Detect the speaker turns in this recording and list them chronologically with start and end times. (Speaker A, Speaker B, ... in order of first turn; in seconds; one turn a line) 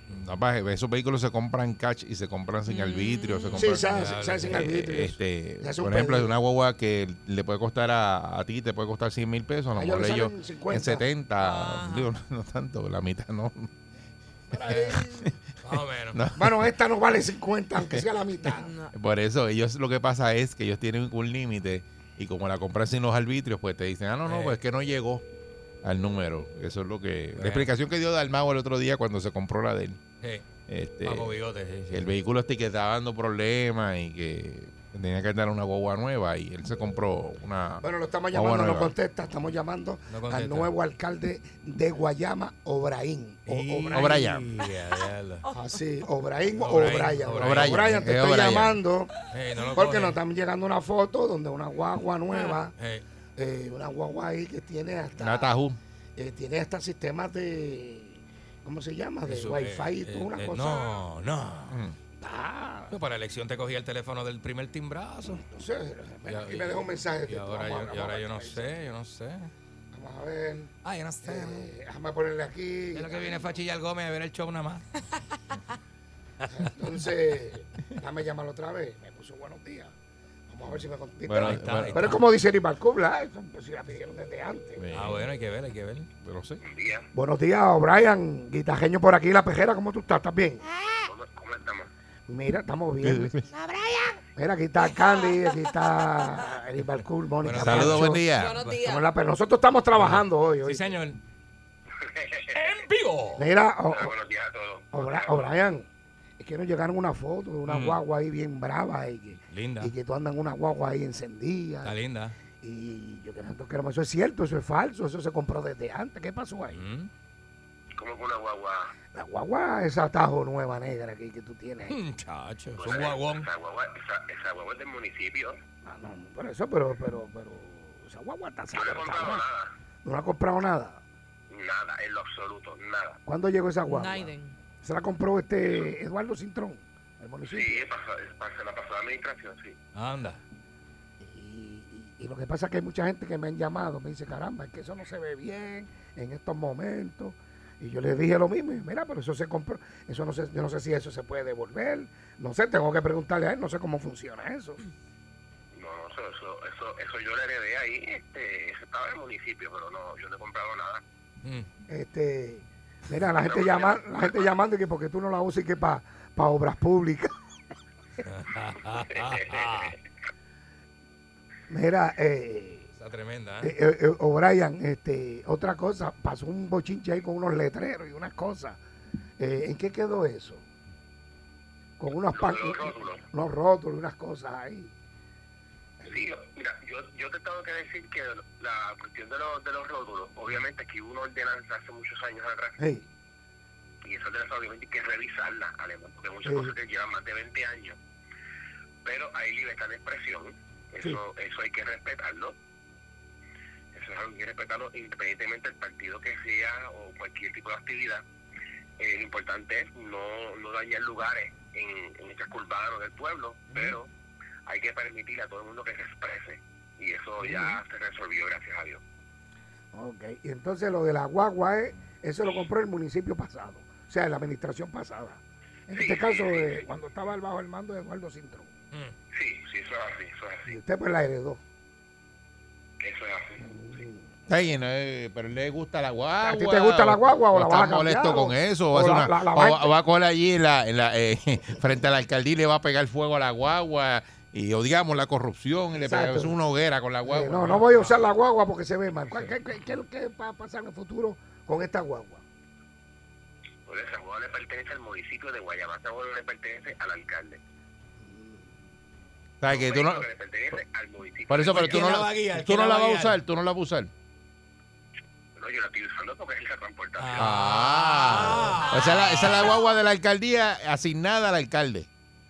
Speaker A: 0.1-13.7
Speaker B: 2.7-3.8
Speaker C: 3.6-6.4
Speaker D: 3.8-4.8
Speaker C: 9.8-11.1
Speaker B: 11.4-12.1
Speaker C: 14.5-15.3
Speaker D: 14.7-15.0
Speaker D: 15.6-16.2
Speaker A: 16.1-16.7
Speaker C: 16.4-18.7
Speaker B: 18.5-18.9
Speaker A: 18.9-25.2
Speaker D: 24.3-24.6
Speaker A: 25.8-30.0
Speaker D: 27.4-27.7
Speaker A: 30.7-31.4
Speaker D: 31.0-32.1
Speaker A: 31.9-38.9
Speaker C: 37.8-44.2
Speaker D: 40.1-40.7
Speaker D: 43.5-45.5
Speaker A: 43.9-44.4
Speaker B: 45.4-45.8
Speaker C: 45.5-49.1
Speaker D: 46.6-47.8
Speaker A: 47.4-48.8
Speaker D: 49.3-50.2
Speaker C: 49.7-52.7
Speaker D: 52.8-53.0
Speaker C: 53.4-55.5
Speaker A: 55.2-55.8
Speaker C: 56.2-61.0
Speaker D: 59.2-61.8
Speaker A: 61.7-62.0
Speaker C: 62.2-63.0
Speaker D: 62.9-65.4
Speaker C: 65.3-68.7
Speaker D: 66.3-69.5
Speaker C: 69.9-70.7
Speaker D: 70.8-71.7
Speaker C: 71.2-73.5
Speaker D: 73.0-75.0
Speaker C: 76.5-79.9
Speaker C: 80.5-84.9
Speaker A: 81.2-82.2
Speaker D: 81.4-82.2
Speaker A: 84.8-85.3
Speaker D: 84.9-86.1
Speaker A: 86.2-86.6
Speaker E: 86.6-87.1
Speaker C: 87.1-90.7
Speaker B: 90.8-91.1
Speaker E: 91.0-91.9
Speaker C: 92.3-93.4
Speaker A: 93.0-93.5
Speaker B: 93.5-94.2
Speaker C: 94.4-98.3
Speaker B: 94.8-96.5
Speaker D: 97.4-98.8
Speaker A: 97.5-98.6
Speaker B: 98.3-99.1
Speaker C: 98.8-101.0
Speaker D: 100.0-101.2
Speaker E: 101.9-102.8
Speaker D: 102.5-103.5
Speaker C: 103.4-104.1
Speaker E: 103.9-105.5
Speaker C: 104.9-105.9
Speaker C: 106.4-111.9
Speaker D: 107.7-108.0
Speaker D: 109.5-109.9
Speaker D: 111.8-112.4
Speaker C: 112.6-116.8
Speaker D: 116.7-117.1
Speaker E: 118.0-118.9
Speaker C: 119.1-122.0
Speaker D: 121.9-123.5
Speaker E: 122.8-125.6
Speaker C: 125.8-129.5
Speaker E: 128.7-129.7
Speaker C: 130.0-131.0
Speaker E: 131.5-133.2
Speaker C: 133.3-137.9
Speaker B: 133.9-134.6
Speaker E: 137.5-139.8
Speaker D: 139.9-140.4
Speaker C: 141.2-154.8
Speaker E: 155.7-161.0
Speaker C: 161.9-167.3
Speaker E: 163.4-164.3
Speaker D: 168.2-169.9
Speaker E: 169.1-169.9
Speaker C: 171.7-172.9
Speaker D: 173.0-173.8
Speaker C: 173.6-178.8
Speaker C: 179.4-180.6
Speaker C: 182.0-184.9
Speaker E: 182.3-183.2
Speaker C: 186.0-186.3
Speaker E: 186.1-192.8
Speaker C: 192.8-193.1
Speaker E: 194.0-198.0
Speaker C: 196.4-196.8
Speaker E: 199.0-202.6
Speaker E: 203.9-208.2
Speaker E: 209.0-214.1
Speaker E: 214.7-219.0
Speaker C: 217.4-217.8
Speaker C: 219.9-228.7
Speaker E: 225.9-226.8
Speaker E: 229.3-230.7
Speaker C: 230.7-231.6
Speaker E: 233.0-233.6
Speaker C: 233.6-234.3
Speaker A: 234.5-247.8
Speaker C: 236.4-239.9
Speaker C: 246.0-246.6
Speaker C: 247.2-252.4
Speaker D: 247.7-248.2
Speaker E: 253.9-257.6
Speaker C: 258.2-258.6
Speaker A: 259.6-260.3
Speaker E: 259.7-262.1
Speaker A: 261.5-264.1
Speaker D: 261.7-263.4
Speaker E: 265.6-267.5
Speaker D: 267.2-269.7
Speaker A: 267.4-272.1
Speaker B: 268.8-270.0